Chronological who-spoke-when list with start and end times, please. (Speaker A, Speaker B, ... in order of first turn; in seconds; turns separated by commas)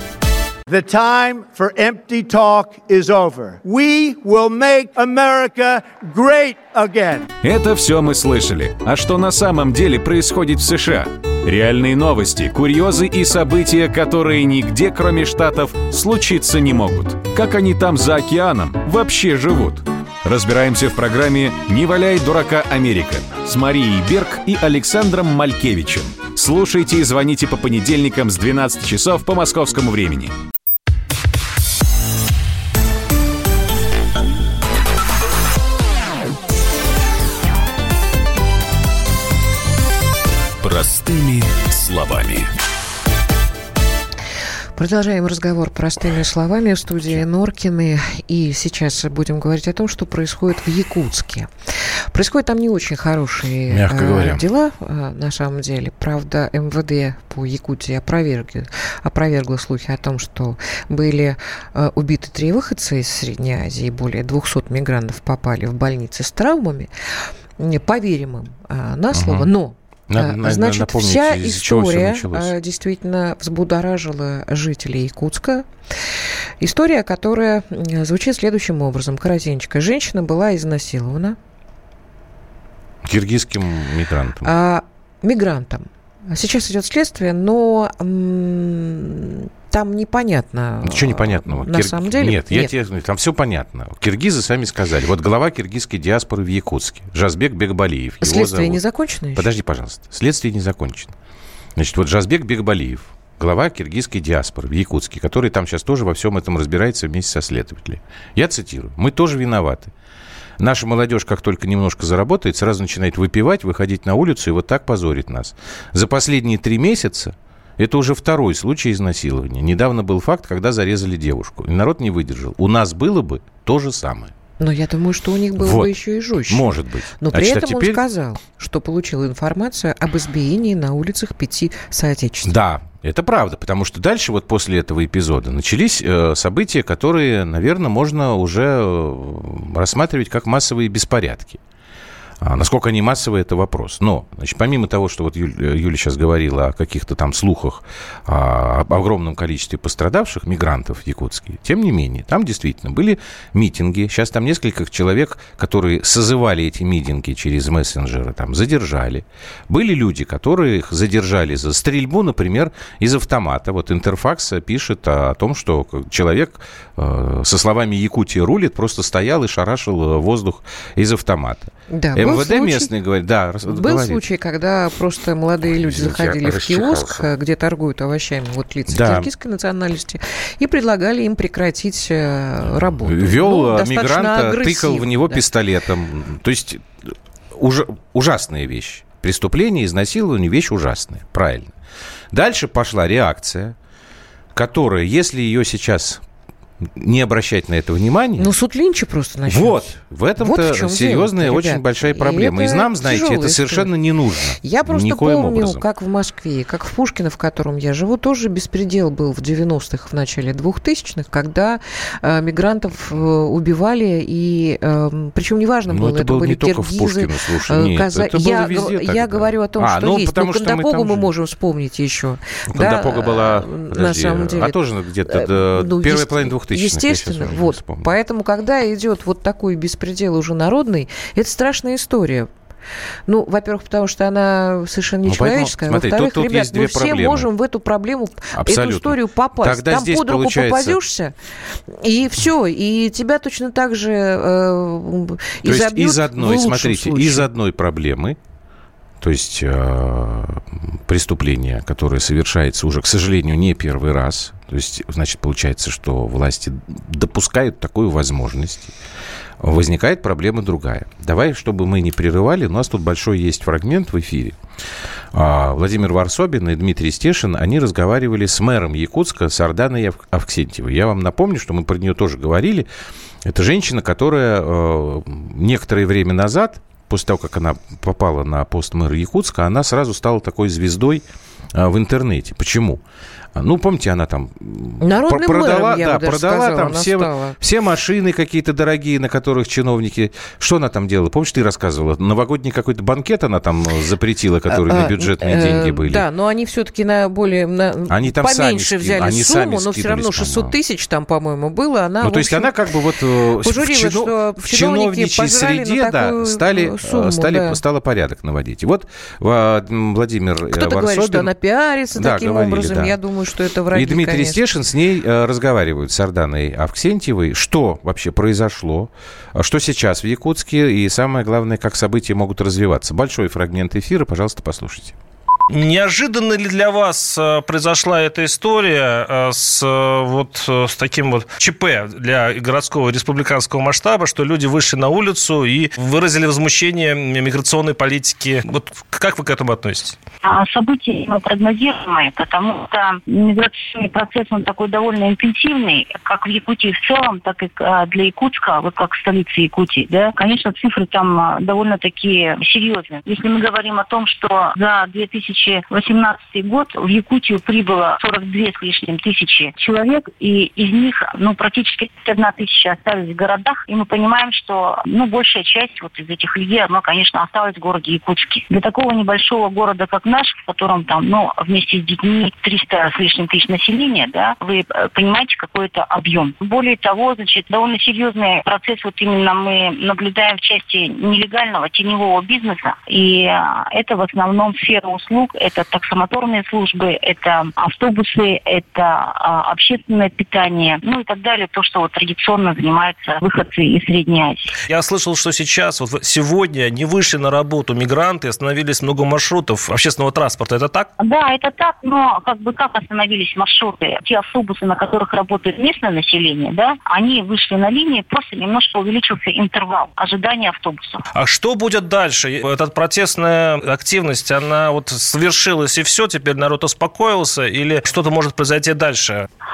Speaker A: 0.7-7.3, Speaker B: 7.4-30.3, Speaker B: 41.7-42.4, Speaker C: 44.8-51.5, Speaker C: 52.1-66.9, Speaker D: 53.7-54.4, Speaker C: 67.6-75.7, Speaker D: 69.1-69.5, Speaker D: 70.1-72.5, Speaker C: 76.6-81.4, Speaker D: 83.0-84.5, Speaker C: 84.4-92.7, Speaker D: 90.8-98.8, Speaker C: 98.2-99.5, Speaker D: 99.3-101.2, Speaker D: 101.8-109.9, Speaker D: 110.6-124.3, Speaker C: 124.6-126.7, Speaker D: 125.6-125.9, Speaker D: 126.5-128.0, Speaker C: 127.2-132.6, Speaker D: 132.4-141.6, Speaker D: 142.4-174.2, Speaker C: 171.9-172.9, Speaker C: 173.7-185.4, Speaker D: 175.6-177.3, Speaker D: 178.9-179.3, Speaker D: 182.7-191.7, Speaker D: 192.3-193.8, Speaker D: 194.5-196.2, Speaker D: 196.8-198.5, Speaker C: 198.4-203.9, Speaker D: 199.5-205.8, Speaker C: 204.6-232.5, Speaker D: 215.9-221.3, Speaker D: 222.7-228.1, Speaker C: 233.3-241.3, Speaker D: 235.2-237.5, Speaker D: 238.5-241.0, Speaker C: 241.9-247.5, Speaker D: 245.6-248.4, Speaker D: 249.2-258.9, Speaker D: 259.6-264.6, Speaker D: 265.3-272.9, Speaker D: 273.4-283.0, Speaker D: 283.6-296.2, Speaker C: 285.0-287.6, Speaker C: 294.7-302.7, Speaker D: 298.1-300.8, Speaker D: 302.2-311.5, Speaker C: 303.6-307.8, Speaker C: 310.7-314.6, Speaker D: 312.1-313.2, Speaker D: 313.9-325.2, Speaker E: 325.7-340.2, Speaker F: 340.4-394.7, Speaker E: 394.9-401.1, Speaker F: 401.2-411.2, Speaker E: 411.4-419.4